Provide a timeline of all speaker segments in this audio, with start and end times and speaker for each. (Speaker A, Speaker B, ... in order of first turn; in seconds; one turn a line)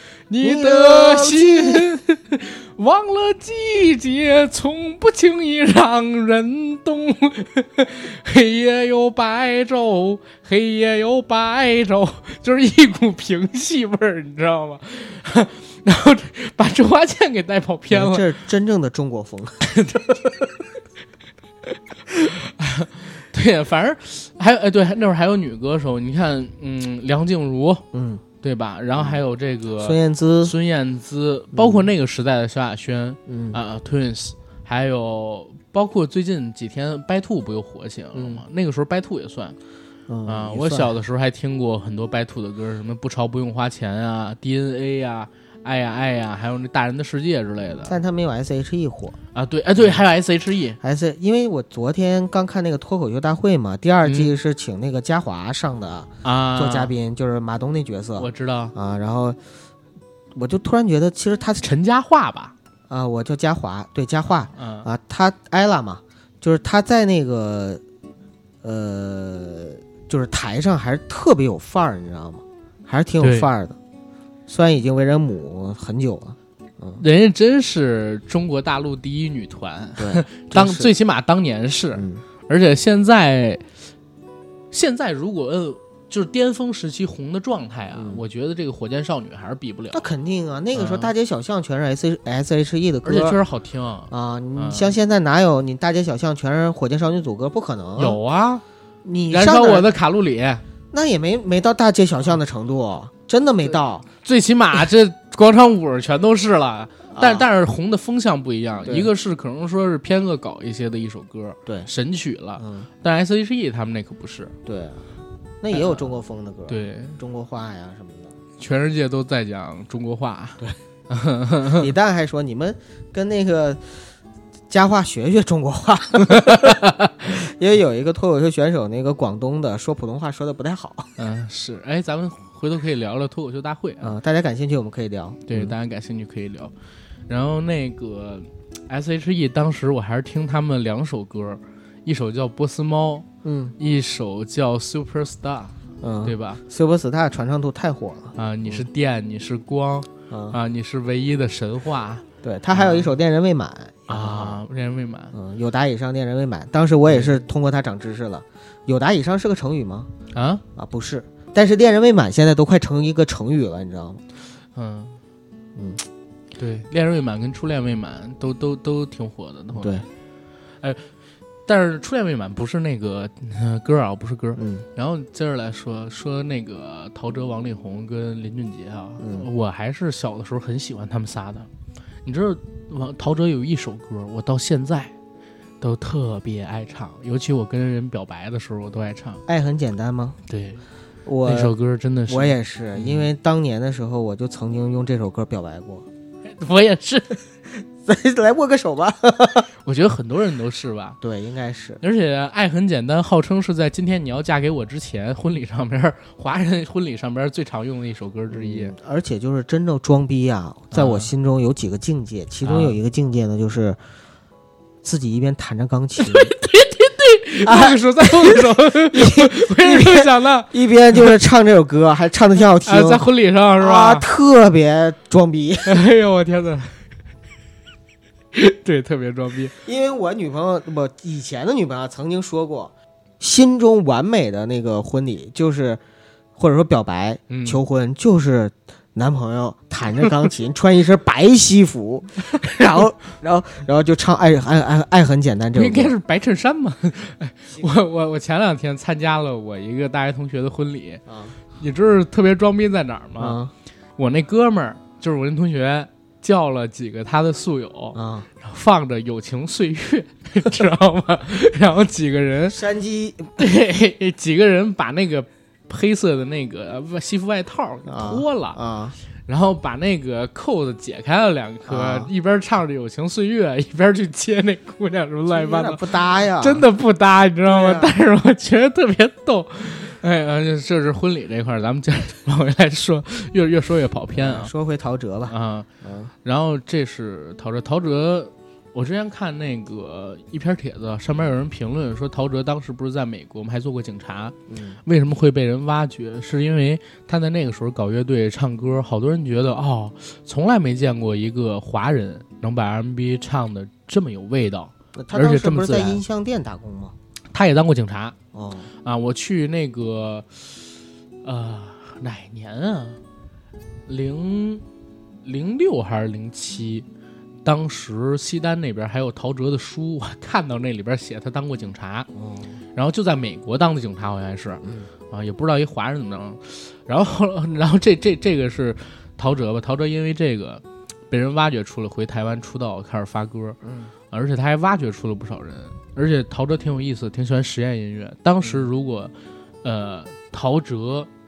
Speaker A: 0.3-18.2
Speaker B: 0.4-1.9
Speaker B: 17.9-19.7
Speaker A: 19.7-20.3
Speaker A: 22.1-27.8
Speaker B: 27.9-28.2
Speaker A: 28.4-39.6
Speaker B: 29.8-30.5
Speaker B: 31.5-31.9
Speaker B: 33.3-33.6
Speaker B: 38.1-38.4
Speaker B: 40.1-40.9
Speaker A: 40.2-48.0
Speaker B: 47.8-49.2
Speaker A: 49.3-50.8
Speaker B: 50.8-59.4
Speaker A: 54.0-54.3
Speaker A: 56.2-56.9
Speaker A: 58.2-58.7
Speaker B: 60.3-61.7
Speaker A: 61.6-62.5
Speaker B: 62.9-67.8
Speaker A: 64.5-64.9
Speaker B: 68.6-73.8
Speaker A: 73.2-73.5
Speaker B: 74.5-77.0
Speaker A: 77.0-83.6
Speaker B: 80.0-80.9
Speaker B: 81.9-82.2
Speaker A: 84.7-90.0
Speaker B: 87.9-88.2
Speaker B: 89.9-93.4
Speaker A: 90.7-91.1
Speaker A: 93.0-94.9
Speaker B: 94.1-98.2
Speaker A: 98.0-98.6
Speaker B: 99.0-99.9
Speaker A: 99.3-100.6
Speaker B: 100.9-104.0
Speaker A: 104.2-114.5
Speaker B: 107.1-107.5
Speaker B: 108.8-109.1
Speaker B: 112.6-112.9
Speaker B: 114.6-115.0
Speaker B: 115.6-118.3
Speaker A: 115.7-116.0
Speaker A: 116.7-117.2
Speaker A: 118.6-121.9
Speaker B: 121.8-124.0
Speaker B: 124.7-131.1
Speaker A: 126.2-127.1
Speaker A: 131.2-134.1
Speaker B: 134.0-135.7
Speaker A: 135.5-136.7
Speaker A: 137.3-143.2
Speaker B: 143.4-143.7
Speaker A: 143.8-146.6
Speaker B: 146.0-148.8
Speaker A: 148.3-153.1
Speaker B: 150.3-150.6
Speaker B: 152.4-154.6
Speaker A: 154.1-155.3
Speaker B: 155.3-160.1
Speaker A: 157.0-157.4
Speaker A: 160.3-160.6
Speaker B: 160.7-164.2
Speaker A: 164.7-165.2
Speaker B: 165.8-166.0
Speaker A: 166.6-170.1
Speaker B: 169.7-170.1
Speaker A: 170.8-171.1
Speaker A: 171.7-181.7
Speaker B: 174.6-174.8
Speaker B: 179.2-179.4
Speaker A: 182.2-185.1
Speaker A: 185.8-189.4
Speaker B: 189.5-190.4
Speaker A: 190.5-190.8
Speaker B: 191.2-191.7
Speaker A: 191.4-193.3
Speaker B: 192.3-196.1
Speaker A: 196.6-197.4
Speaker B: 197.9-199.7
Speaker A: 199.8-201.2
Speaker B: 201.2-202.0
Speaker A: 202.0-208.9
Speaker B: 208.5-214.0
Speaker A: 210.9-211.3
Speaker A: 212.6-213.0
Speaker B: 215.0-216.5
Speaker A: 216.2-220.7
Speaker B: 217.6-223.2
Speaker A: 222.8-224.3
Speaker B: 223.8-226.0
Speaker A: 225.8-227.0
Speaker A: 228.5-229.7
Speaker B: 229.8-236.0
Speaker B: 236.6-246.1
Speaker A: 237.5-237.8
Speaker A: 245.7-251.2
Speaker B: 251.3-251.5
Speaker A: 251.7-253.6
Speaker B: 253.4-253.7
Speaker A: 254.2-262.8
Speaker B: 258.1-258.5
Speaker B: 262.7-263.5
Speaker A: 263.6-268.8
Speaker B: 268.1-269.1
Speaker A: 269.5-276.0
Speaker B: 271.9-272.3
Speaker B: 275.5-276.8
Speaker A: 276.6-284.7
Speaker B: 277.6-278.1
Speaker B: 284.3-286.3
Speaker A: 285.5-285.9
Speaker A: 286.4-306.2
Speaker B: 294.7-295.0
Speaker B: 305.1-307.1
Speaker A: 307.5-308.3
Speaker B: 308.5-308.9
Speaker A: 309.0-310.8
Speaker A: 311.4-313.2
Speaker A: 314.1-314.8
Speaker A: 315.4-317.1
Speaker A: 317.6-322.3
Speaker B: 322.3-322.8
Speaker A: 322.9-333.8
Speaker B: 324.8-325.1
Speaker B: 333.8-334.1
Speaker A: 334.3-339.3
Speaker A: 339.8-341.3